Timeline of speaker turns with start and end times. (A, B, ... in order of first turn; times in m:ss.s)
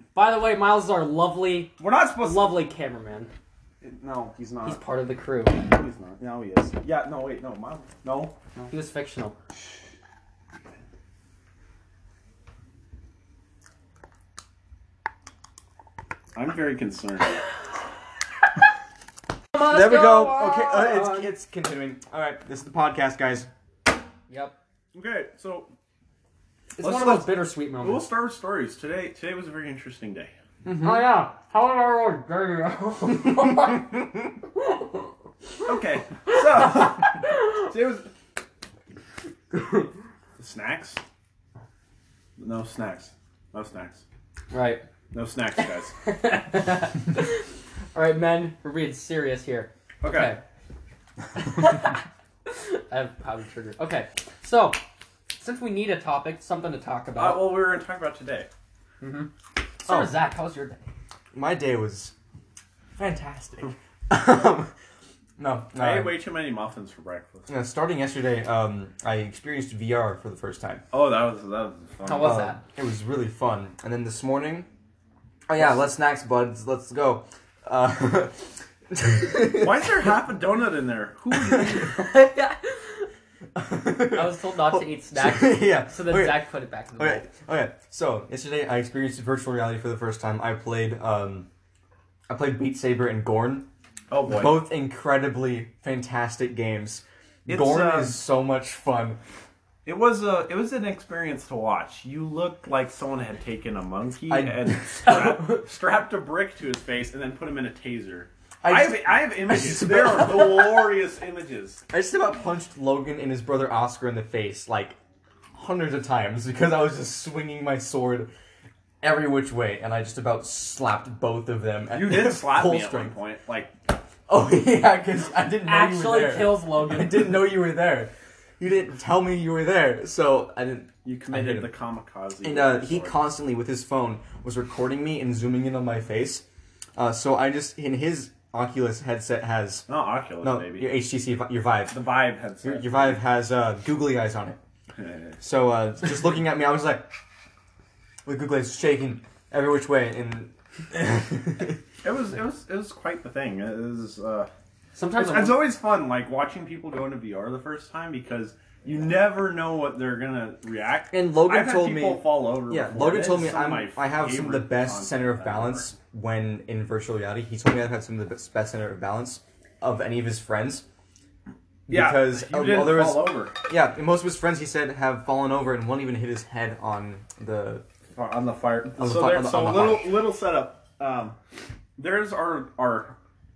0:00.1-0:03.3 A
0:01.8-0:02.6 B
0:03.8-0:04.8 B
0:04.6-0:05.6 A
0:05.6-0:08.3 B
0:08.6-0:09.3 A
0:16.3-0:17.4 B
0:19.5-0:21.3 A
0:19.5-0:23.5 C
0:24.3-0:24.6 A
0:24.9-0:25.7 B
0:26.7-0:28.0 A
0:26.8-0:30.3 B
0:30.6-0:31.1 C
0:30.7-0:33.9 A
0:34.6-0:35.0 A
0:35.6-0:38.1 B
0:36.3-0:37.4 A
0:39.5-0:39.9 A
0:40.4-0:41.0 B
0:42.4-0:44.0 B
0:44.5-0:44.8 A
0:45.1-0:45.9 B
0:46.0-0:50.4 A
0:50.0-0:50.3 B
0:51.5-0:54.8 A
0:55.4-0:57.6 A
0:57.2-0:58.5 B
0:59.0-0:59.3 A
0:59.8-1:00.8 A
0:59.9-1:00.2 C
1:01.3-1:02.1 C
1:03.0-1:04.7 C
1:05.4-1:06.2 C
1:05.8-1:07.5 B
1:07.5-1:10.8 C
1:10.9-1:12.4 B
1:12.0-1:12.6 A
1:12.2-1:14.7 C
1:15.5-1:19.9 C
1:19.4-1:21.9 B
1:21.9-1:23.1 A
1:23.5-1:31.5 C
1:24.1-1:27.2 A
1:32.3-1:33.7 C
1:34.1-1:34.6 B
1:34.3-1:39.2 C
1:37.5-1:38.2 B
1:39.8-1:51.8 B
1:44.3-1:44.7 C
1:45.0-1:45.6 A
1:48.6-1:50.9 C
1:51.9-1:55.0 C
1:55.5-1:58.3 C
1:59.0-2:03.1 C
2:01.9-2:03.7 B
2:04.3-2:11.7 C
2:05.6-2:07.3 A
2:11.0-2:13.2 B
2:12.4-2:16.4 C
2:17.0-2:19.9 C
2:19.9-2:20.9 B
2:20.4-2:22.0 C
2:21.9-2:23.2 B
2:22.6-2:24.6 C
2:25.0-2:25.4 B
2:25.4-2:27.1 C
2:28.2-2:31.8 C
2:32.0-2:34.5 B
2:34.9-2:35.6 A
2:35.2-2:45.9 B
2:41.1-2:50.8 C
2:51.9-2:53.6 B
2:51.9-2:57.8 C
2:58.2-3:01.4 B
2:59.0-3:00.2 C
3:02.0-3:03.1 B